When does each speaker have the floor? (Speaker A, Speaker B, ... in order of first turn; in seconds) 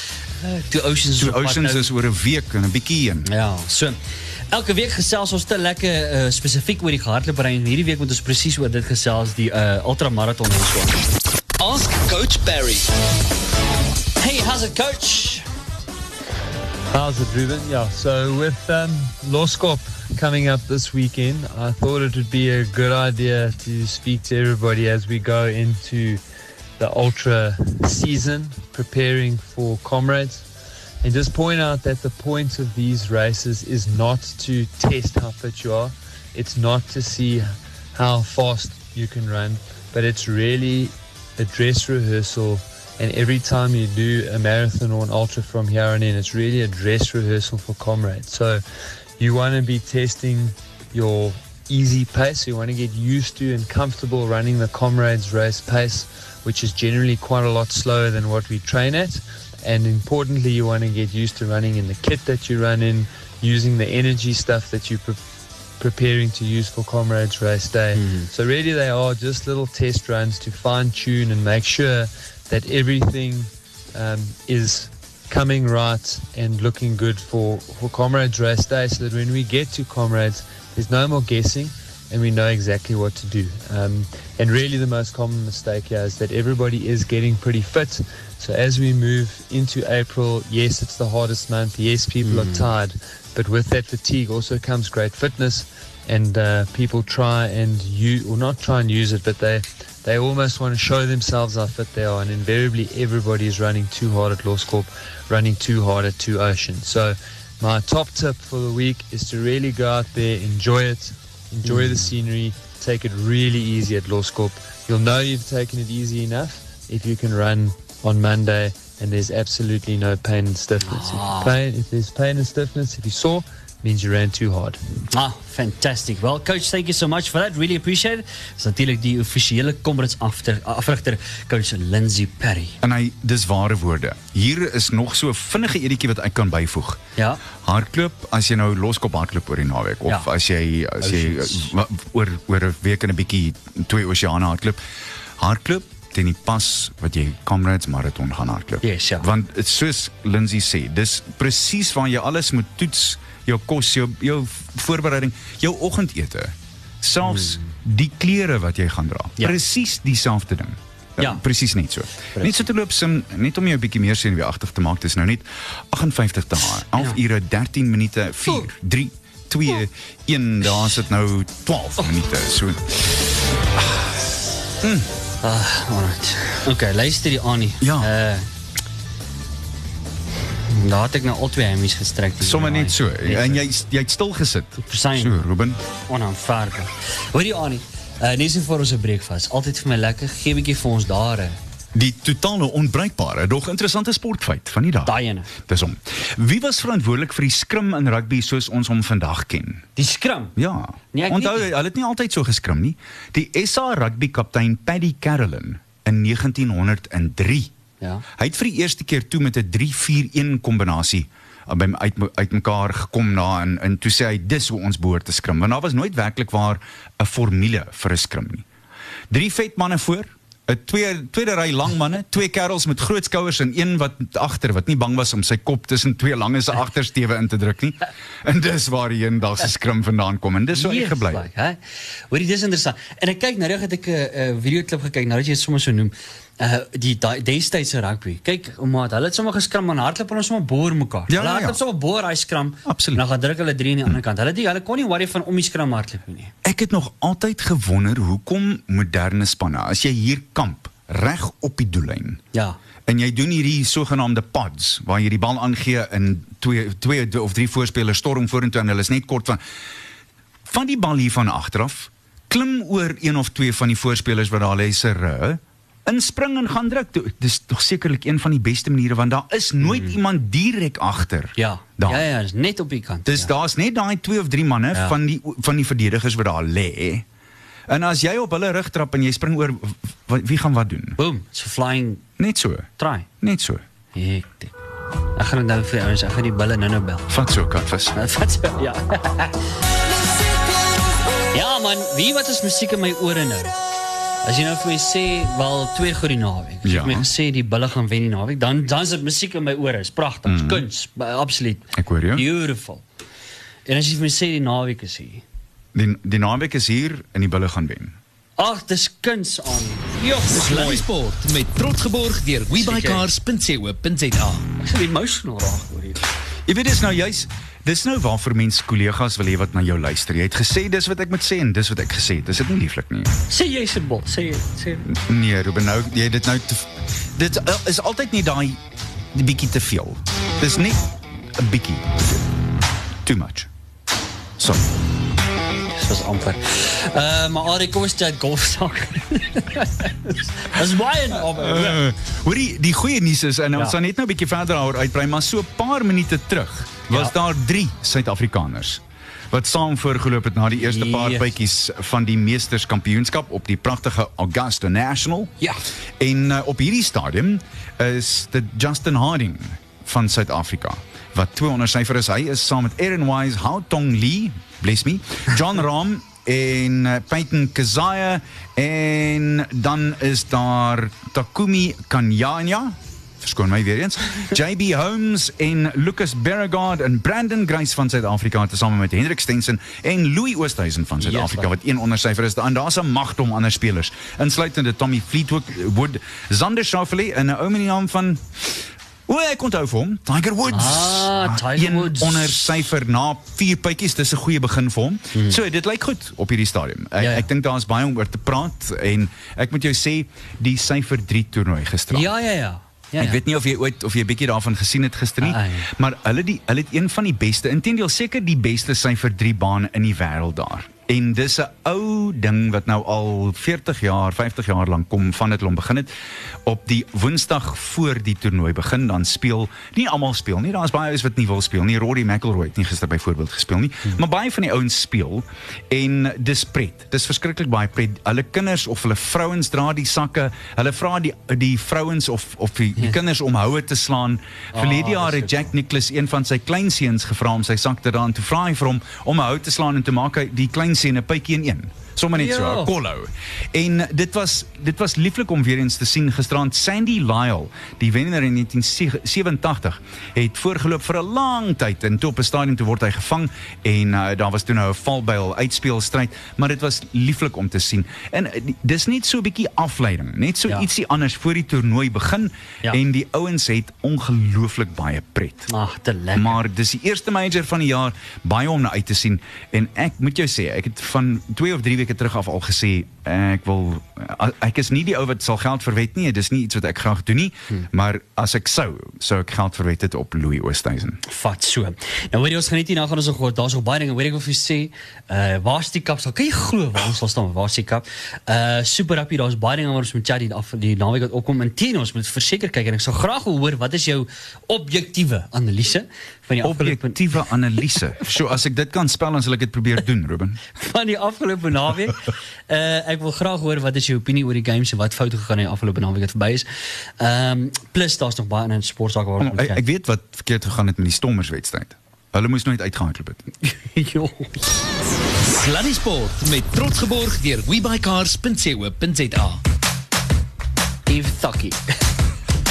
Speaker A: 0.4-1.9, 3.3-4.0, 4.5-11.0, 11.9-12.7, 14.2-15.5, 68.0-68.3, 92.2-92.7, 111.6-112.1, 120.8-121.5, 125.1-132.8, 137.2-137.4, 141.0-141.7, 148.8-149.3, 157.2-157.7, 162.3-162.7, 175.4-178.5, 180.6-183.6, 184.8-185.4, 186.1-191.6, 195.1-195.5, 200.0-200.6, 201.1-201.7, 230.7-231.8, 232.3-246.5, 252.5-252.8, 269.8-270.1, 271.6-273.5, 281.2-282.2, 283.0-283.3, 284.1-284.7, 285.4-287.4, 288.1-289.6, 291.5-293.7, 294.4-303.0, 303.9-305.4, 308.6-311.1, 312.8-313.3, 314.8-316.2, 323.5-325.1, 335.9-342.0, 347.1-347.4, 350.7-351.6, 381.2-381.7, 390.7-392.8, 395.3-395.6, 397.2-397.5, 402.1-403.4, 405.4-405.9, 434.7-435.5, 442.3-442.9, 465.7-466.6, 481.2-497.3, 500.8-506.7, 507.2-509.8, 513.6-514.7, 521.1-521.8
Speaker B: 1.2-3.3, 132.8-137.0, 137.6-144.8, 145.4-173.2, 173.8-174.1, 174.8-175.1, 177.8-178.1, 182.4-185.8, 191.9-199.9, 200.6-207.7, 208.4-218.7, 219.3-231.5, 241.3-241.8, 242.9-243.2, 246.6-252.4, 253.1-259.6, 260.7-272.2, 273.3-277.2, 277.9-281.2, 282.4-282.9, 283.4-283.8, 287.3-288.2, 296.8-297.3, 300.4-300.9, 301.9-302.5, 305.9-308.2, 316.7-323.3, 325.1-328.8, 329.3-332.4, 333.2-333.7, 334.6-334.8, 341.4-355.5, 356.2-402.3, 403.2-416.1, 416.6-465.7, 466.4-481.2, 496.6-500.6, 509.4-513.5
Speaker C: 11.6-12.7, 310.5-314.6, 515.4-519.6
Speaker D: 16.9-26.2, 26.8-30.4, 31.0-48.6, 49.2-65.2, 65.8-124.8